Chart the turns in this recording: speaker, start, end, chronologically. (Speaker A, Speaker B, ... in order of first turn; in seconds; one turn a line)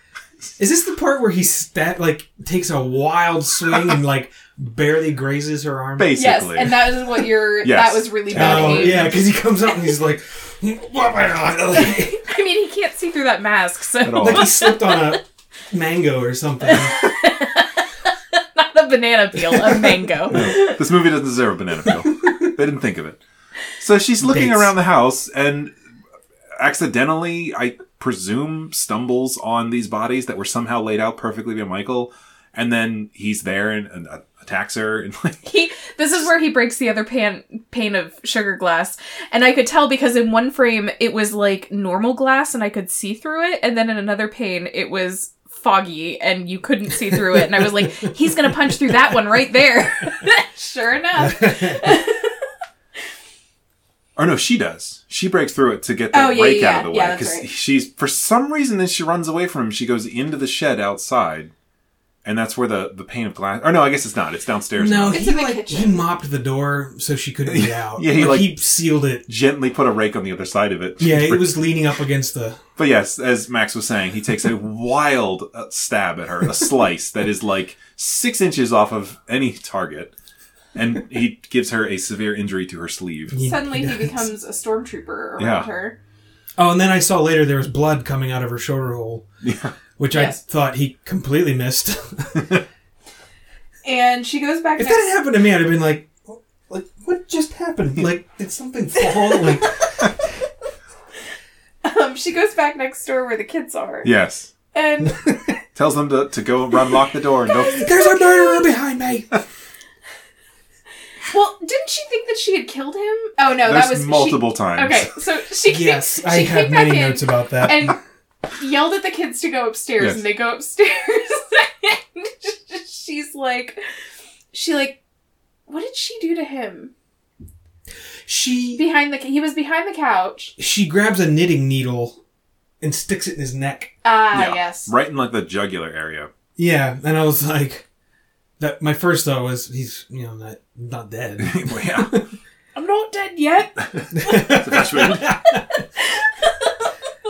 Speaker A: 0.6-6.1
Speaker B: 6.0-9.2
Speaker C: 6.2-9.1
Speaker A: 8.3-12.2
Speaker C: 12.1-14.8
Speaker B: 14.0-14.6
Speaker A: 14.2-17.0
Speaker C: 16.7-20.8
Speaker A: 19.4-20.5
Speaker B: 20.3-23.2
Speaker B: 23.8-25.7
Speaker A: 24.2-24.7
Speaker B: 26.6-35.4
Speaker C: 35.4-52.4
Speaker A: 51.2-51.9
Speaker B: 54.1-61.5
Speaker C: 56.1-57.5
Speaker B: 62.2-65.2
Speaker A: 64.7-69.2
Speaker C: 65.1-66.0
Speaker B: 67.5-68.6
Speaker B: 69.2-71.6
Speaker A: 71.0-72.6
Speaker B: 72.8-80.1
Speaker B: 80.7-83.4
Speaker A: 83.3-84.2
Speaker C: 83.4-86.0
Speaker B: 85.4-85.7
Speaker A: 86.6-89.2
Speaker B: 89.4-89.7
Speaker A: 90.0-92.5
Speaker C: 90.1-90.4
Speaker C: 93.8-95.1
Speaker A: 94.8-99.9
Speaker C: 99.1-99.9
Speaker C: 101.8-104.1
Speaker B: 104.0-104.5
Speaker C: 104.7-105.4
Speaker B: 105.7-107.9
Speaker C: 107.5-108.7
Speaker A: 107.7-109.4
Speaker C: 111.3-118.0
Speaker B: 113.6-115.1
Speaker A: 115.7-118.0
Speaker C: 118.6-123.8
Speaker B: 120.0-120.2
Speaker C: 124.5-125.0
Speaker C: 125.7-126.9
Speaker A: 128.2-128.8
Speaker C: 128.8-130.5
Speaker A: 130.6-132.2
Speaker A: 132.8-133.9
Speaker C: 134.0-134.9
Speaker B: 134.3-136.3
Speaker A: 136.6-137.8
Speaker A: 138.6-142.2
Speaker B: 141.4-142.2
Speaker C: 142.7-144.5
Speaker B: 143.9-145.4
Speaker A: 144.1-145.8
Speaker C: 146.0-146.9